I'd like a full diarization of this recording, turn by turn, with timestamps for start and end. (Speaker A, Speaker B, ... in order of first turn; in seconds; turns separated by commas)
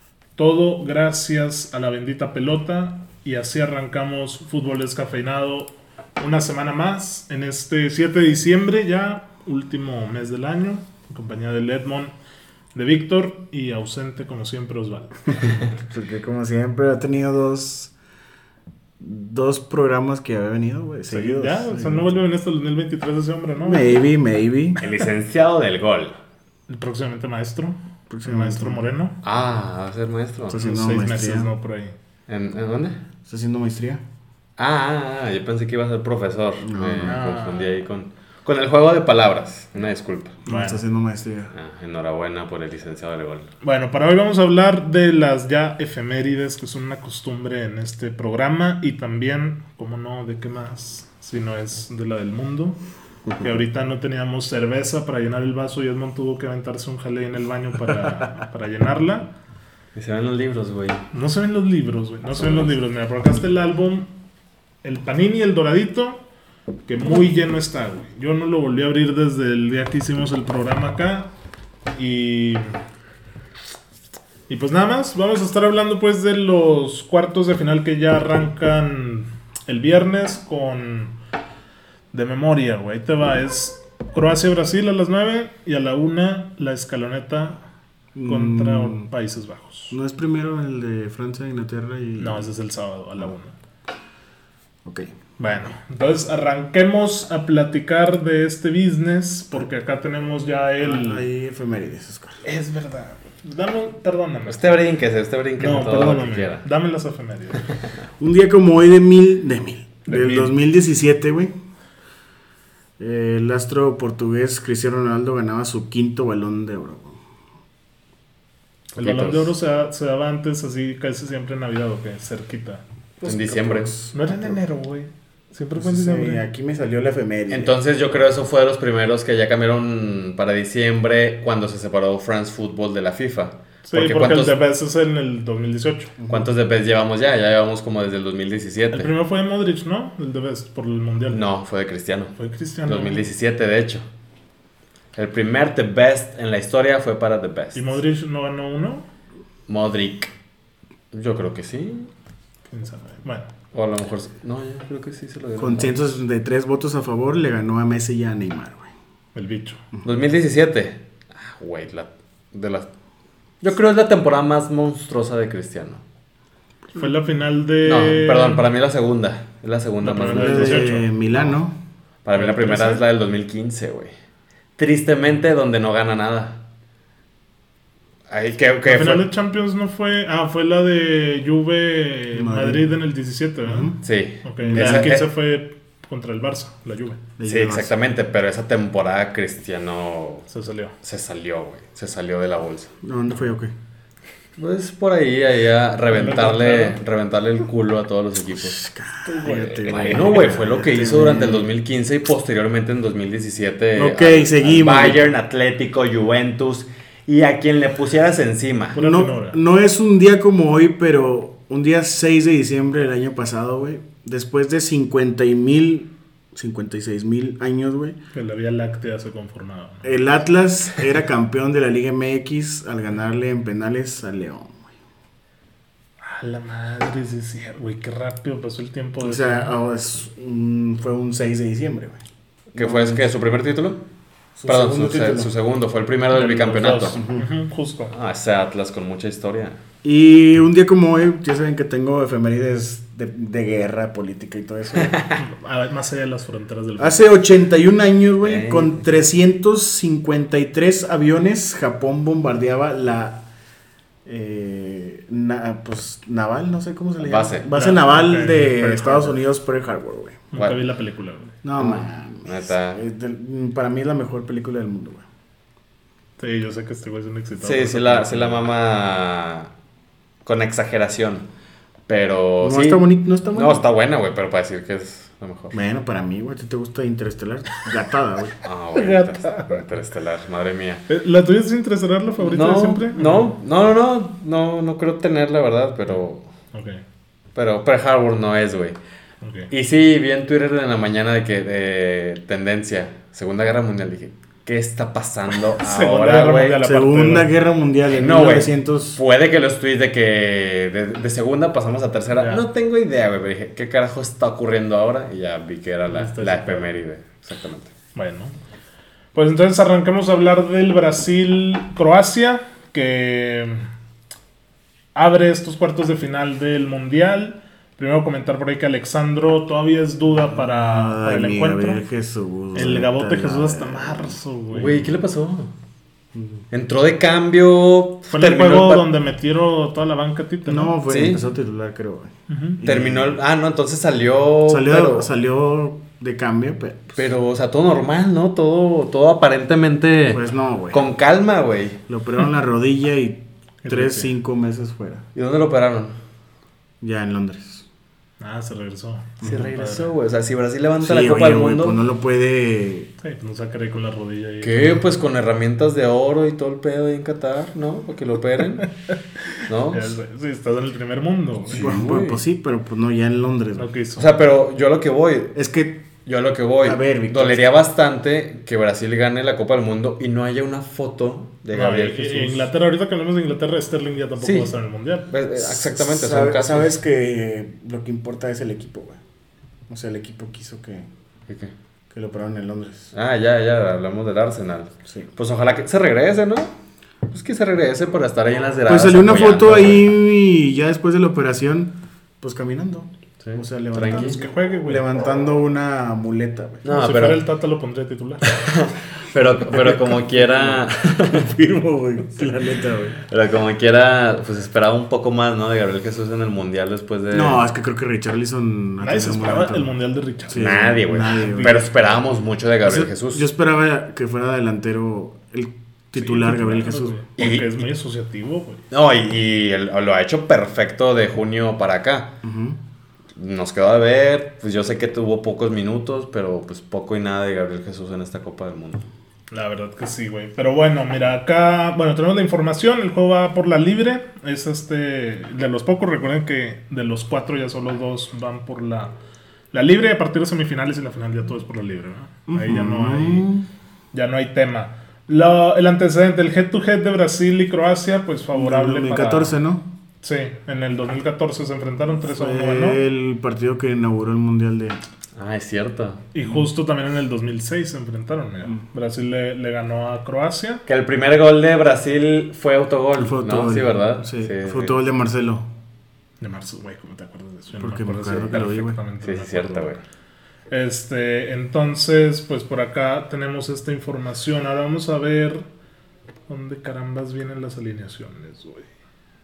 Speaker A: 0.4-12.1, Speaker A: 12.7-15.4, Speaker B: 15.8-17.9, Speaker B: 19.0-22.1, Speaker A: 21.1-24.0, Speaker B: 23.6-24.8, Speaker C: 24.8-26.2, Speaker A: 26.7-29.2, Speaker B: 28.1-28.9, Speaker C: 29.2-30.6, Speaker B: 30.5-31.5, Speaker A: 30.5-31.9, Speaker C: 32.3-33.0, Speaker B: 33.2-34.0, Speaker C: 34.6-40.4, Speaker B: 36.6-37.2, Speaker A: 37.0-37.7, Speaker B: 40.5-41.5, Speaker A: 40.5-40.8, Speaker C: 41.5-43.5, Speaker A: 43.6-52.8, Speaker A: 53.4-59.3, Speaker C: 59.9-61.0, Speaker A: 61.1-64.1, Speaker A: 64.8-66.2, Speaker A: 66.9-71.3, Speaker A: 72.0-72.8, Speaker A: 74.5-81.2, Speaker A: 82.1-87.6, Speaker B: 88.1-89.1, Speaker A: 88.2-90.0, Speaker B: 89.9-92.5, Speaker A: 92.2-93.5, Speaker B: 94.8-95.1, Speaker A: 95.4-101.3, Speaker B: 100.8-102.4, Speaker A: 102.4-104.8, Speaker C: 104.5-106.7, Speaker A: 105.6-107.6, Speaker B: 108.2-111.5, Speaker A: 110.0-110.5, Speaker B: 113.0-117.2, Speaker A: 118.9-122.8, Speaker C: 119.0-119.5, Speaker B: 123.2-124.6, Speaker C: 123.2-123.9, Speaker A: 124.1-126.4, Speaker B: 125.8-127.8, Speaker C: 127.5-134.6, Speaker A: 133.8-136.1, Speaker B: 136.2-136.5, Speaker C: 136.3-139.1, Speaker A: 138.9-141.4, Speaker C: 141.3-142.3, Speaker A: 142.3-143.2, Speaker C: 142.8-144.1, Speaker C: 145.2-148.0, Speaker A: 147.7-149.1, Speaker C: 149.7-150.3, Speaker C: 151.1-152.1, Speaker A: 152.7-153.5, Speaker C: 153.7-155.9, Speaker B: 155.6-158.9, Speaker A: 159.3-159.8, Speaker C: 160.0-162.9, Speaker C: 163.6-166.0, Speaker A: 166.9-168.7, Speaker C: 167.8-171.6, Speaker A: 170.0-171.1, Speaker B: 170.2-171.8, Speaker C: 172.2-174.1, Speaker A: 172.3-173.0, Speaker C: 174.8-176.6, Speaker C: 178.3-179.3, Speaker A: 178.8-187.2, Speaker B: 182.3-182.9, Speaker B: 183.7-184.0, Speaker C: 184.0-185.3, Speaker B: 184.7-185.1, Speaker B: 187.4-187.9, Speaker C: 187.4-190.5, Speaker A: 190.5-190.9, Speaker C: 191.0-192.9, Speaker B: 193.0-193.7, Speaker C: 194.6-198.8, Speaker A: 196.1-197.0, Speaker B: 198.6-201.7, Speaker A: 199.2-200.6, Speaker C: 199.8-209.0, Speaker B: 203.9-205.2, Speaker A: 208.9-209.6, Speaker B: 209.0-218.2, Speaker A: 218.3-220.1, Speaker B: 220.0-224.9, Speaker A: 226.2-229.7, Speaker B: 229.2-232.2, Speaker C: 232.7-234.0, Speaker B: 232.8-233.3, Speaker B: 234.6-235.5, Speaker C: 234.7-237.2, Speaker A: 236.3-238.1, Speaker B: 237.0-237.5, Speaker C: 238.1-239.8, Speaker B: 240.0-245.3, Speaker C: 245.0-245.3, Speaker A: 245.3-247.2, Speaker B: 247.0-253.5, Speaker C: 248.4-249.0, Speaker B: 254.2-260.4, Speaker C: 257.2-257.7, Speaker A: 257.7-259.4, Speaker A: 260.5-261.6, Speaker B: 261.6-265.3, Speaker C: 261.8-263.0, Speaker A: 266.4-268.7, Speaker C: 267.6-269.7, Speaker C: 270.4-271.5, Speaker C: 272.1-275.8, Speaker B: 272.6-273.8, Speaker B: 275.7-278.6, Speaker C: 278.6-281.1, Speaker A: 279.0-279.8, Speaker A: 281.1-283.6, Speaker C: 282.4-286.5, Speaker A: 286.7-287.0, Speaker C: 287.6-289.0, Speaker A: 289.4-289.7, Speaker C: 289.7-296.9, Speaker A: 295.7-297.5, Speaker B: 296.9-299.2, Speaker C: 298.1-307.9, Speaker A: 302.4-302.7, Speaker A: 306.1-306.9, Speaker A: 308.1-308.6, Speaker A: 309.3-313.9, Speaker A: 315.1-322.0, Speaker B: 320.5-324.4, Speaker A: 322.7-325.1, Speaker C: 324.7-325.7, Speaker B: 326.4-326.6, Speaker C: 326.7-329.1, Speaker A: 328.3-331.0, Speaker B: 330.7-333.4, Speaker C: 331.1-331.4, Speaker A: 332.5-332.8, Speaker C: 332.8-335.3, Speaker B: 334.7-337.2, Speaker C: 337.2-342.0, Speaker B: 340.3-341.0, Speaker B: 342.1-345.2, Speaker A: 343.8-344.3, Speaker C: 345.4-346.1, Speaker B: 347.0-347.9, Speaker A: 348.4-350.1, Speaker B: 349.4-349.7, Speaker C: 349.4-352.0, Speaker B: 351.0-353.1, Speaker A: 353.2-354.9, Speaker C: 354.6-358.9, Speaker C: 359.7-360.2, Speaker A: 359.9-361.9, Speaker C: 361.7-362.4, Speaker B: 361.7-363.9, Speaker A: 363.8-364.4, Speaker C: 364.2-365.6, Speaker B: 365.6-366.1, Speaker C: 366.2-372.7, Speaker B: 366.8-367.6, Speaker A: 371.7-375.3, Speaker C: 374.4-374.7, Speaker C: 375.3-376.9, Speaker B: 375.5-379.2, Speaker B: 379.9-381.1, Speaker C: 381.5-381.7, Speaker B: 382.1-383.1, Speaker C: 383.1-386.7, Speaker C: 387.3-390.1, Speaker B: 388.9-396.9, Speaker C: 393.4-394.4, Speaker A: 394.0-395.1, Speaker C: 396.8-397.5, Speaker A: 396.9-398.4, Speaker C: 398.4-401.5, Speaker B: 399.4-403.2, Speaker C: 403.2-407.6, Speaker B: 407.3-409.9, Speaker A: 409.0-411.9, Speaker B: 410.5-411.9, Speaker C: 410.5-413.5, Speaker B: 412.8-417.2, Speaker A: 416.2-418.8, Speaker C: 417.4-417.8, Speaker C: 418.9-422.3, Speaker B: 422.4-422.8, Speaker C: 423.4-429.1, Speaker A: 429.5-439.1, Speaker A: 439.7-443.5, Speaker B: 442.5-443.7, Speaker A: 444.1-449.6, Speaker B: 448.5-449.8, Speaker A: 450.2-453.0, Speaker B: 452.2-455.0, Speaker C: 455.4-456.2, Speaker A: 456.3-460.8, Speaker C: 460.9-465.0, Speaker B: 463.2-465.7, Speaker A: 466.4-469.9, Speaker B: 467.8-469.0, Speaker C: 469.2-470.0, Speaker A: 470.7-475.7, Speaker A: 476.5-478.9